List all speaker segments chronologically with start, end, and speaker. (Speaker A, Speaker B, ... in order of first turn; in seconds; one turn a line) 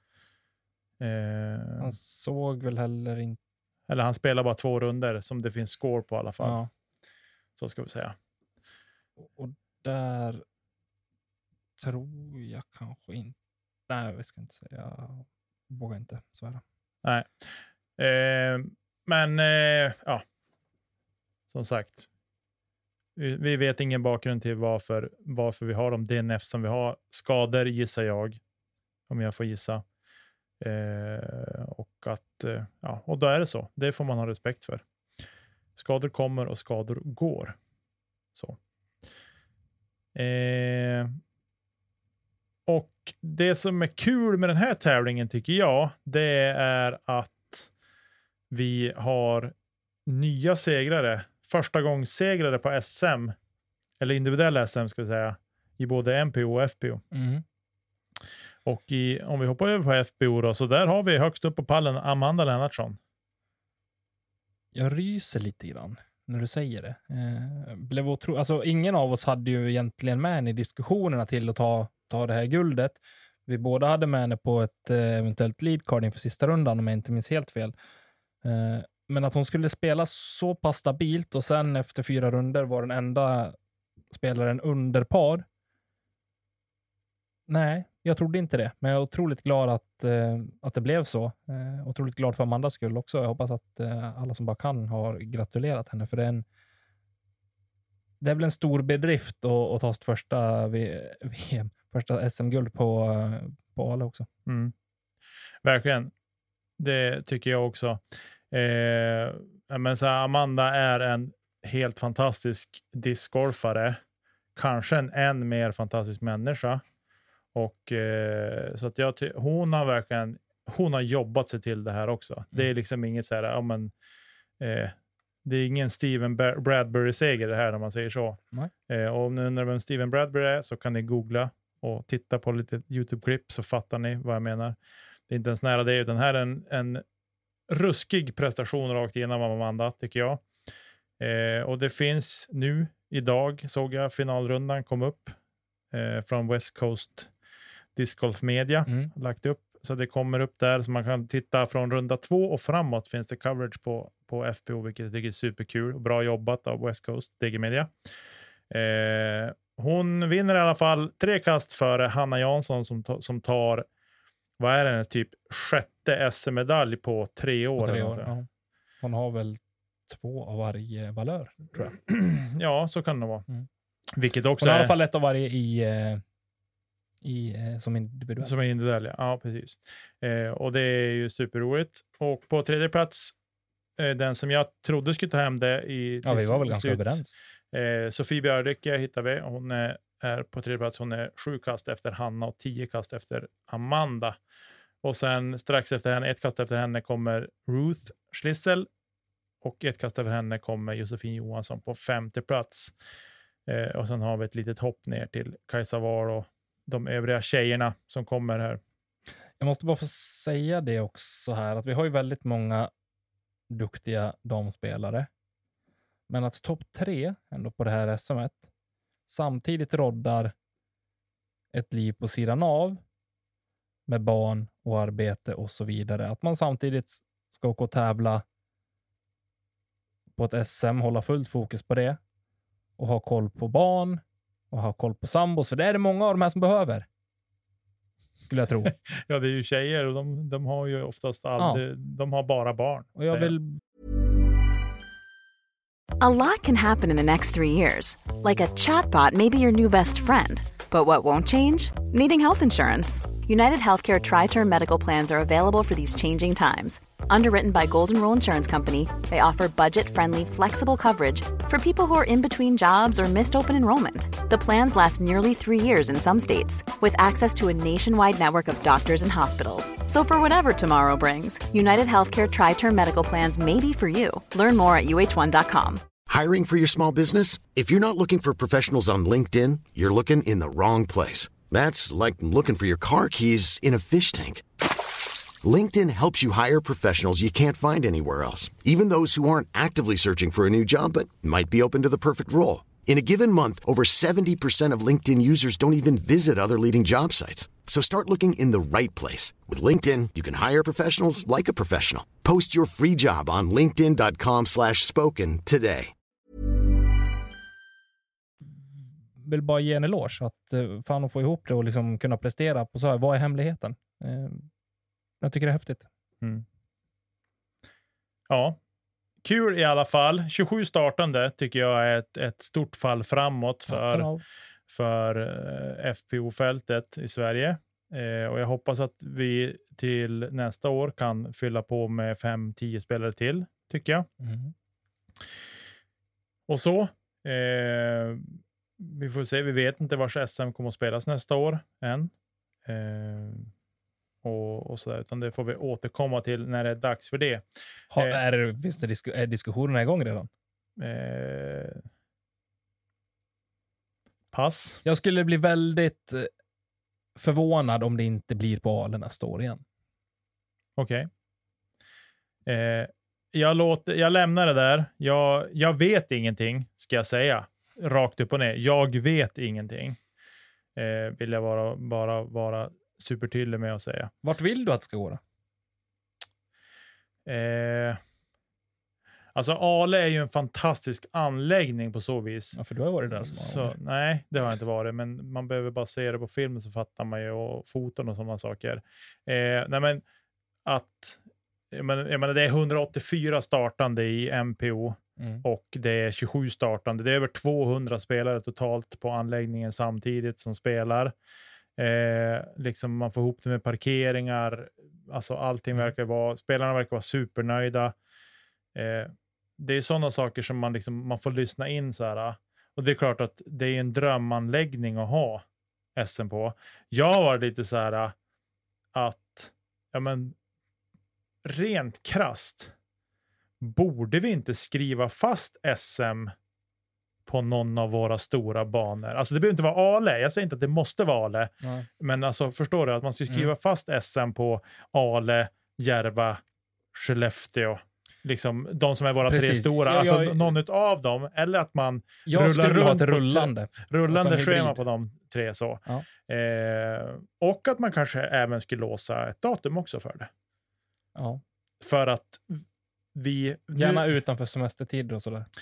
Speaker A: 1.0-1.9
Speaker B: 1.8-3.4
Speaker A: 3.9-6.6
Speaker B: 6.4-6.7
Speaker A: 7.6-8.2
Speaker B: 9.2-10.4
Speaker B: 11.8-13.3
Speaker B: 13.9-16.6
Speaker A: 17.0-20.2
Speaker A: 21.5-22.1
Speaker A: 23.2-28.4
Speaker A: 29.1-29.8
Speaker A: 30.6-34.8
Speaker A: 35.8-37.6
Speaker A: 40.1-41.2
Speaker A: 42.7-47.7
Speaker A: 48.5-49.5
Speaker A: 50.1-53.4
Speaker A: 54.0-57.0
Speaker B: 57.1-57.4
Speaker A: 58.6-63.0
Speaker B: 64.7-77.8
Speaker B: 78.4-83.6
Speaker B: 84.1-85.5
Speaker B: 87.5-96.5
Speaker B: 98.2-104.3
Speaker A: 104.5-104.7
Speaker A: 105.6-106.1
Speaker A: 106.8-114.0
Speaker A: 114.5-116.8
Speaker A: 117.5-123.9
Speaker A: 124.6-134.8
Speaker A: 135.3-137.0
Speaker A: 137.7-140.4
Speaker A: 141.2-145.4
Speaker A: 145.9-147.3
Speaker A: 148.0-157.9
Speaker A: 158.7-163.9
Speaker A: 164.6-168.3
Speaker B: 167.8-168.5
Speaker B: 169.0-171.9
Speaker A: 171.9-173.5
Speaker A: 174.2-174.9
Speaker B: 174.6-176.2
Speaker B: 177.2-178.5
Speaker A: 178.4-183.3
Speaker A: 184.0-194.4
Speaker B: 186.2-187.3
Speaker A: 195.0-198.9
Speaker A: 199.6-202.9
Speaker A: 203.7-208.8
Speaker B: 209.6-212.9
Speaker B: 213.7-215.3
Speaker B: 216.3-218.7
Speaker B: 219.3-220.5
Speaker B: 221.7-223.0
Speaker B: 224.1-228.4
Speaker B: 230.4-232.2
Speaker B: 233.0-237.1
Speaker B: 238.5-238.9
Speaker A: 238.8-243.5
Speaker B: 243.2-243.8
Speaker C: 246.2-276.0
Speaker D: 276.3-284.6
Speaker D: 285.6-306.1
Speaker B: 309.4-314.7
Speaker B: 315.4-316.1
Speaker A: 318.5-318.8
Speaker A: 319.4-324.3
Speaker B: 323.9-324.4
Speaker A: 324.9-334.3
Speaker B: 334.4-334.7
Speaker A: 336.7-342.3
Speaker A: 342.9-343.7
Speaker A: 344.4-347.6
Speaker B: 348.1-350.5
Speaker A: 351.0-352.0
Speaker A: 354.5-355.0
Speaker B: 355.1-356.5
Speaker B: 357.4-359.8
Speaker A: 361.0-361.3
Speaker A: 362.7-370.2
Speaker A: 371.0-374.3
Speaker B: 374.4-375.4
Speaker A: 377.5-378.2
Speaker A: 379.6-382.8
Speaker B: 382.8-383.9
Speaker A: 383.4-390.2
Speaker A: 390.9-391.4
Speaker A: 391.9-401.3
Speaker B: 395.4-395.6
Speaker A: 402.0-408.1
Speaker A: 408.9-415.6
Speaker A: 416.2-418.3
Speaker A: 419.1-420.6
Speaker A: 421.6-422.9
Speaker A: 423.8-426.5
Speaker A: 427.5-436.6
Speaker B: 431.8-432.1
Speaker A: 437.1-450.5
Speaker B: 439.5-440.8
Speaker B: 442.5-445.0
Speaker B: 451.4-451.6
Speaker A: 452.0-454.3
Speaker B: 454.0-455.7